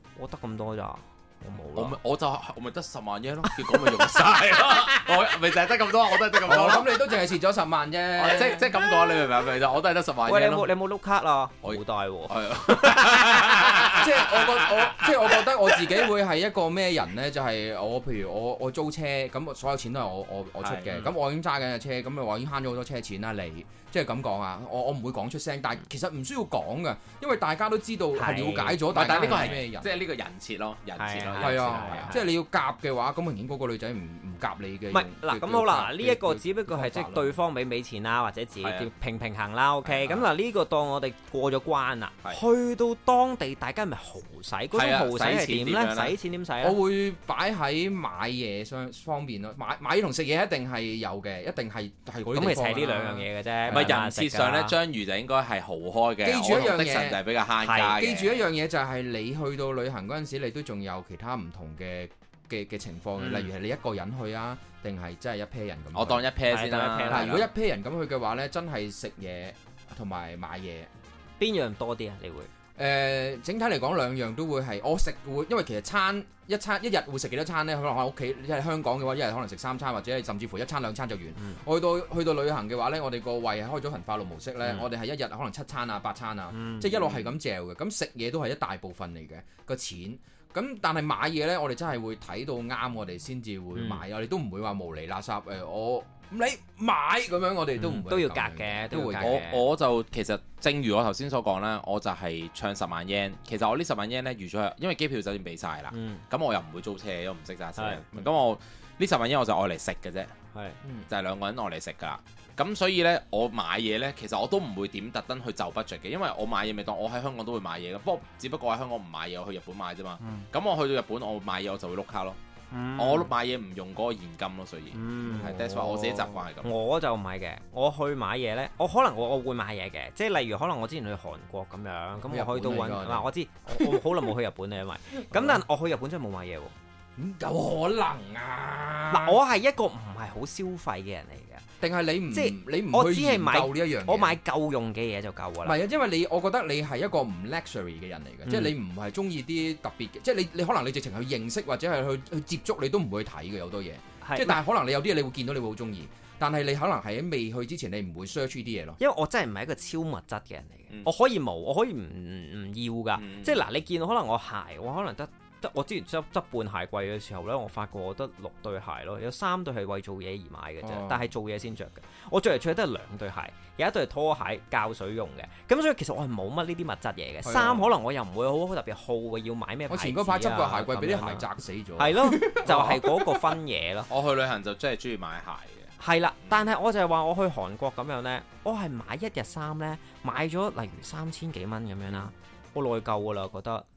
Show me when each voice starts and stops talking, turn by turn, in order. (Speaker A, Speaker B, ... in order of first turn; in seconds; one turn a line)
Speaker A: 0.2-2.0
Speaker B: 1.8-7.0
Speaker A: 3.7-5.0
Speaker C: 6.4-8.8
Speaker B: 8.2-10.7
Speaker A: 8.8-9.1
Speaker A: 10.3-14.0
Speaker B: 11.6-15.5
Speaker C: 13.9-30.0
Speaker B: 20.6-21.1
Speaker A: 28.2-28.8
Speaker B: 28.9-32.2
Speaker A: 31.0-32.2
Speaker C: 31.4-37.3
Speaker A: 34.9-46.8
Speaker B: 36.8-37.1
Speaker B: 38.6-38.9
Speaker B: 39.9-40.3
Speaker B: 44.7-46.1
Speaker C: 46.6-53.9
Speaker A: 52.3-54.8
Speaker B: 53.7-58.4
Speaker C: 56.2-57.2
Speaker A: 57.6-58.1
Speaker C: 58.0-66.2
Speaker A: 63.2-63.5
Speaker B: 65.9-67.5
Speaker A: 66.5-67.4
Speaker C: 67.1-70.9
Speaker A: 71.4-72.5
Speaker C: 72.8-99.5
Speaker A: 86.5-86.9
Speaker B: 86.9-87.3
Speaker A: 93.8-94.0
Speaker A: 97.8-99.7
Speaker B: 99.2-110.3
Speaker A: 105.9-106.2
Speaker A: 107.8-108.1
Speaker B: 111.1-122.4
Speaker A: 122.7-123.3
Speaker B: 123.0-126.7
Speaker A: 124.9-125.5
Speaker C: 125.3-126.4
Speaker A: 126.6-136.8
Speaker C: 132.3-134.1
Speaker C: 135.3-135.6
Speaker C: 137.2-139.4
Speaker A: 139.1-141.6
Speaker C: 141.8-144.4
Speaker A: 142.3-145.8
Speaker C: 145.6-159.0
Speaker A: 148.5-148.7
Speaker A: 154.2-154.6
Speaker A: 159.0-184.1
Speaker B: 163.2-163.6
Speaker C: 170.8-171.3
Speaker C: 177.4-177.9
Speaker C: 179.9-183.5
Speaker B: 184.1-185.9
Speaker A: 186.0-193.9